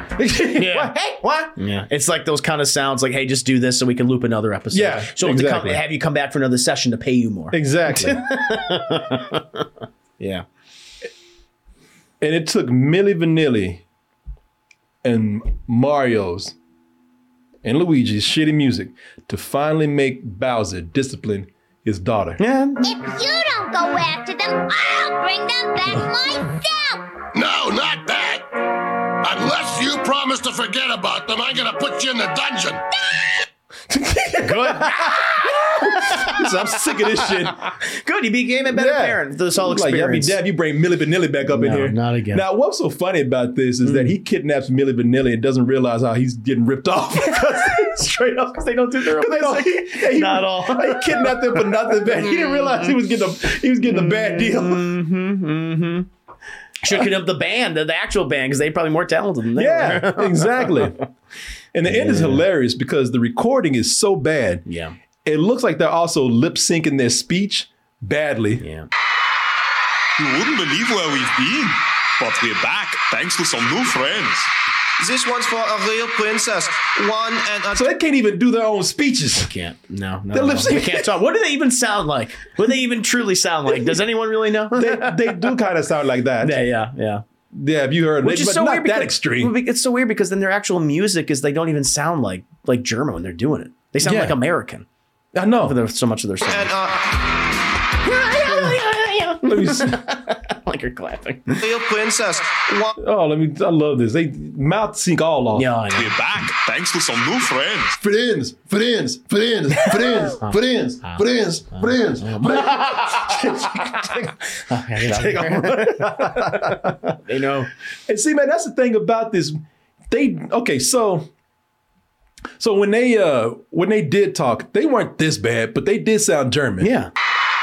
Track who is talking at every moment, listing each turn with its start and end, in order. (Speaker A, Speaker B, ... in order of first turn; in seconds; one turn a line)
Speaker A: 0.1-1.6
Speaker B: 0.6-0.9
Speaker B: 1.6-9.6
Speaker A: 4.7-5.8
Speaker A: 7.5-8.2
Speaker B: 10.2-10.4
Speaker A: 12.2-13.8
Speaker A: 15.0-16.6
Speaker A: 17.6-22.4
Speaker B: 22.4-22.8
Speaker C: 22.8-27.1
Speaker D: 27.3-28.6
Speaker D: 29.2-32.9
Speaker A: 33.9-37.7
Speaker B: 34.4-40.4
Speaker A: 38.7-48.1
Speaker B: 41.5-42.5
Speaker B: 43.8-44.1
Speaker B: 47.2-52.9
Speaker A: 49.1-55.0
Speaker B: 53.9-56.1
Speaker B: 56.8-60.9
Speaker A: 59.6-61.0
Speaker A: 61.7-64.6
Speaker B: 61.9-62.5
Speaker B: 64.7-65.0
Speaker A: 65.2-68.6
Speaker B: 68.6-68.9
Speaker E: 70.2-74.5
Speaker F: 75.0-77.8
Speaker A: 77.7-79.5
Speaker B: 79.5-85.5
Speaker A: 80.3-81.1
Speaker A: 84.7-86.6
Speaker B: 86.4-87.2
Speaker A: 87.5-89.5
Speaker B: 88.2-94.9
Speaker A: 94.0-94.4
Speaker A: 95.3-95.8
Speaker B: 95.6-96.7
Speaker F: 96.5-97.0
Speaker B: 98.0-101.6
Speaker A: 99.4-100.0
Speaker F: 101.6-103.0
Speaker A: 103.0-105.7
Speaker B: 105.5-106.2
Speaker E: 105.9-108.0
Speaker A: 108.0-114.3
Speaker B: 110.0-117.7
Speaker A: 115.0-117.0
Speaker A: 118.1-121.3
Speaker A: 122.6-126.9
Speaker B: 126.8-127.1